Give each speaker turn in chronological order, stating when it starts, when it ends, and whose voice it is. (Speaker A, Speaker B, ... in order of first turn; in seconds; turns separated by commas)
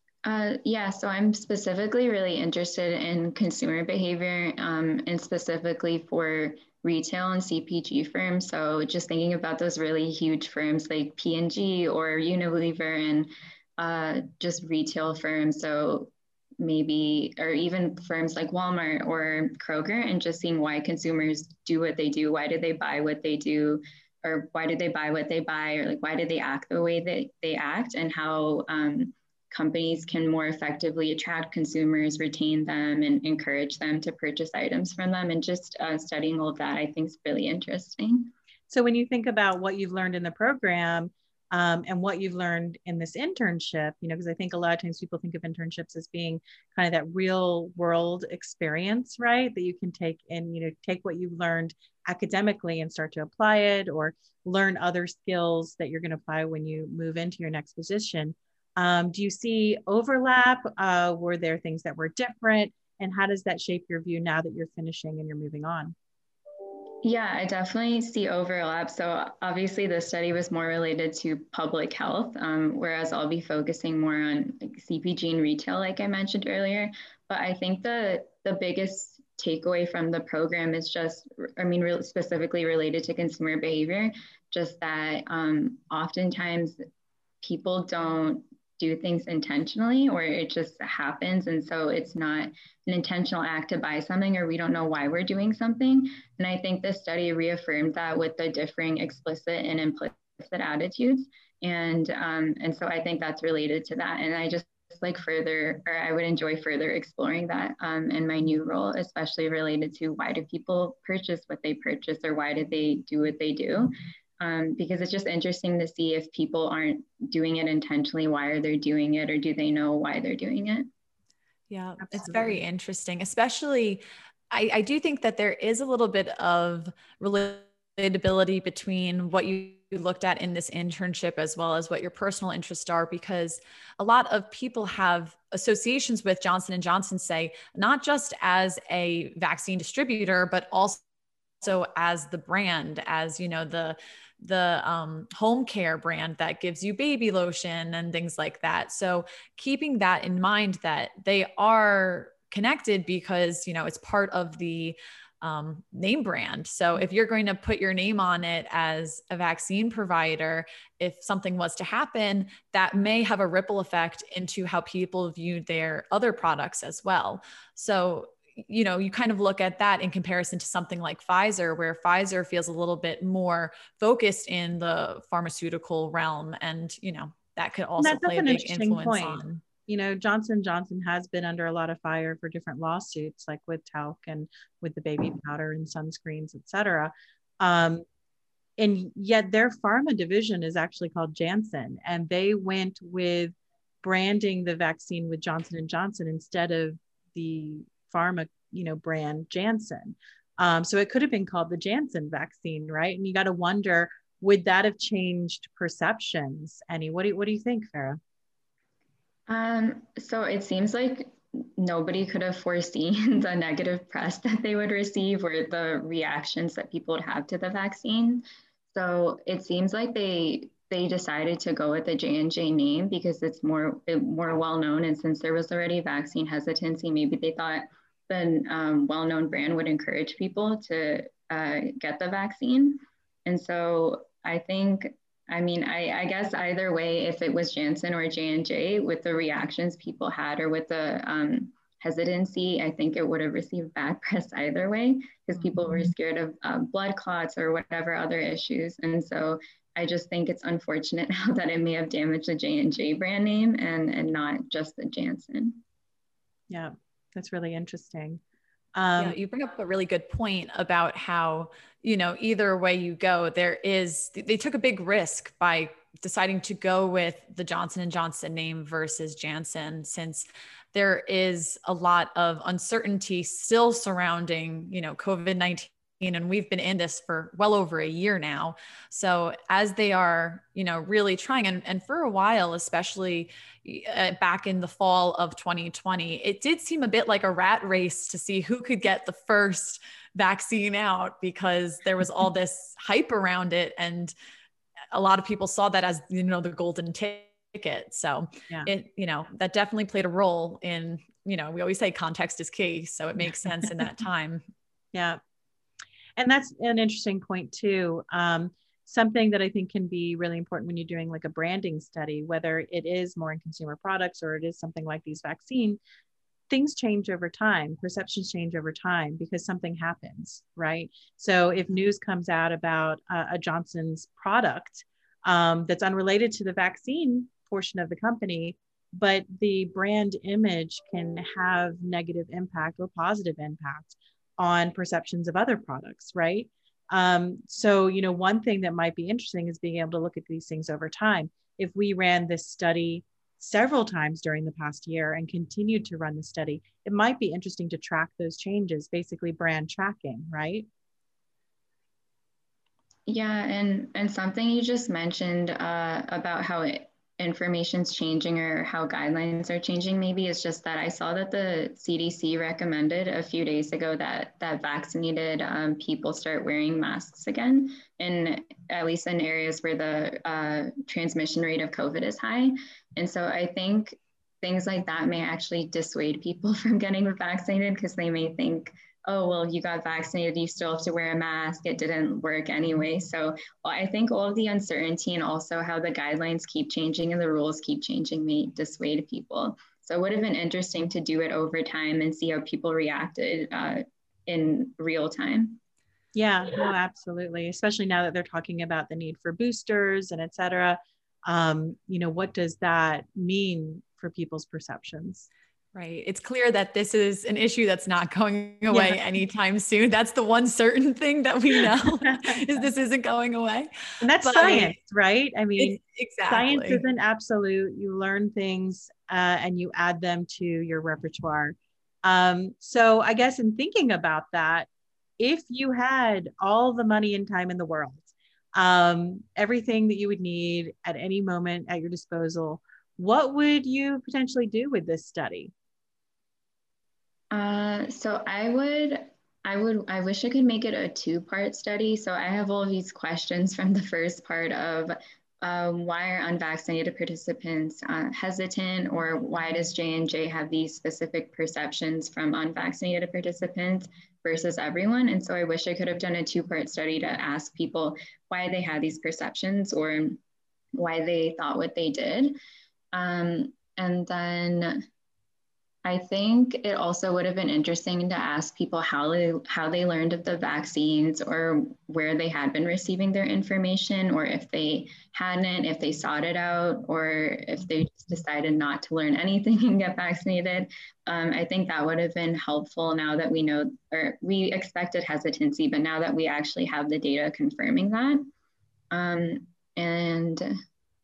Speaker A: 0.2-38.3, Speaker B: 38.7-65.9, Speaker A: 67.0-86.8, Speaker A: 87.4-120.9, Speaker C: 121.7-141.0, Speaker B: 122.0-122.6, Speaker C: 141.6-179.6, Speaker B: 178.0-188.0, Speaker B: 188.8-208.2, Speaker A: 209.5-255.8, Speaker B: 256.7-258.4, Speaker B: 258.9-259.4, Speaker C: 259.2-294.3, Speaker C: 295.1-304.6, Speaker B: 303.6-303.8, Speaker B: 305.1-305.4, Speaker B: 306.4-316.0, Speaker B: 316.7-350.9, Speaker A: 353.3-395.8, Speaker B: 396.3-405.5, Speaker C: 405.9-413.9, Speaker B: 408.9-409.2, Speaker B: 412.3-412.6, Speaker B: 414.2-424.9, Speaker C: 414.4-414.9, Speaker C: 415.8-417.0, Speaker B: 425.4-435.7, Speaker A: 437.5-460.4, Speaker A: 460.9-462.6, Speaker A: 463.1-465.0, Speaker A: 466.0-488.4, Speaker A: 489.1-490.7